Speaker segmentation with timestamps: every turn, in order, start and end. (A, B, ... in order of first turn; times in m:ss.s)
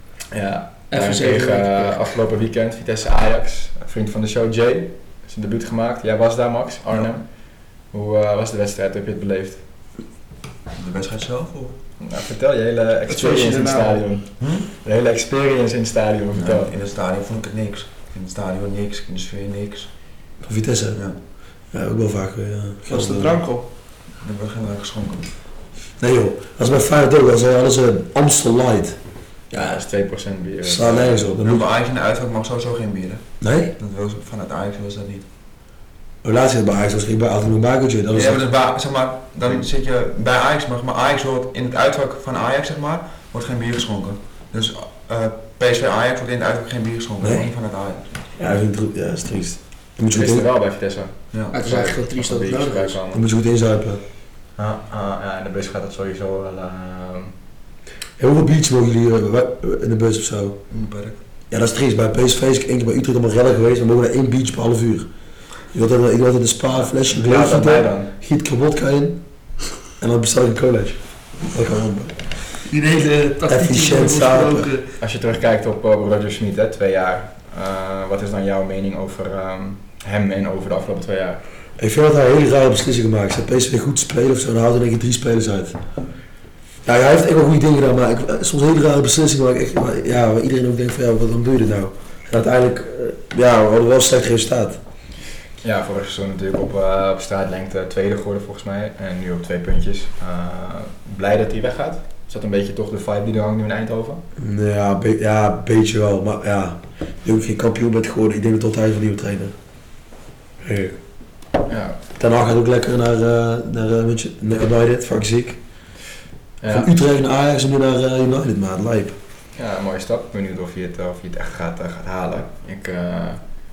0:00.3-0:07.2 A
0:00.9-0:02.0 B
0:07.9-0:09.6 A
0:10.7-0:11.8 C
0:12.0-0:16.7 A
0:13.1-0:14.0 B
0:14.4-0:14.6 C
0:16.4-0:19.9 C
0:20.4-0:21.0 D
0:21.7-0:23.4 D
0:22.9-0:23.6 B
0:24.2-0:25.3 C
0:26.0-0:29.0 D
0:29.5-0:31.3 A
0:29.5-0:29.8 D
0:30.6-0:31.7 D
0:31.4-0:35.2 C
0:33.4-0:33.7 D
0:36.2-0:38.4 D
0:38.1-0:48.1 C
0:47.2-0:47.5 D
0:48.4-0:50.4 D
0:50.1-0:53.2 A
0:51.5-0:53.0 B
0:53.1-0:54.0 D
0:54.6-0:57.3 A
0:58.2-1:00.6 D
1:00.7-1:01.2 C
1:01.5-1:05.1 D
1:05.7-1:09.2 D
1:06.7-1:08.1 A
1:10.0-1:12.2 D
1:12.6-1:14.8 B
1:13.5-1:14.7 D
1:15.0-1:21.4 A
1:21.8-1:25.8 D
1:26.8-1:34.8 D
1:35.6-1:44.2 A
1:44.4-1:49.5 D
1:50.6-1:51.0 D
1:51.7-1:52.0 A
1:52.2-1:55.6 D
1:56.6-1:56.9 A
1:56.6-1:59.2 D
1:59.6-2:03.4 A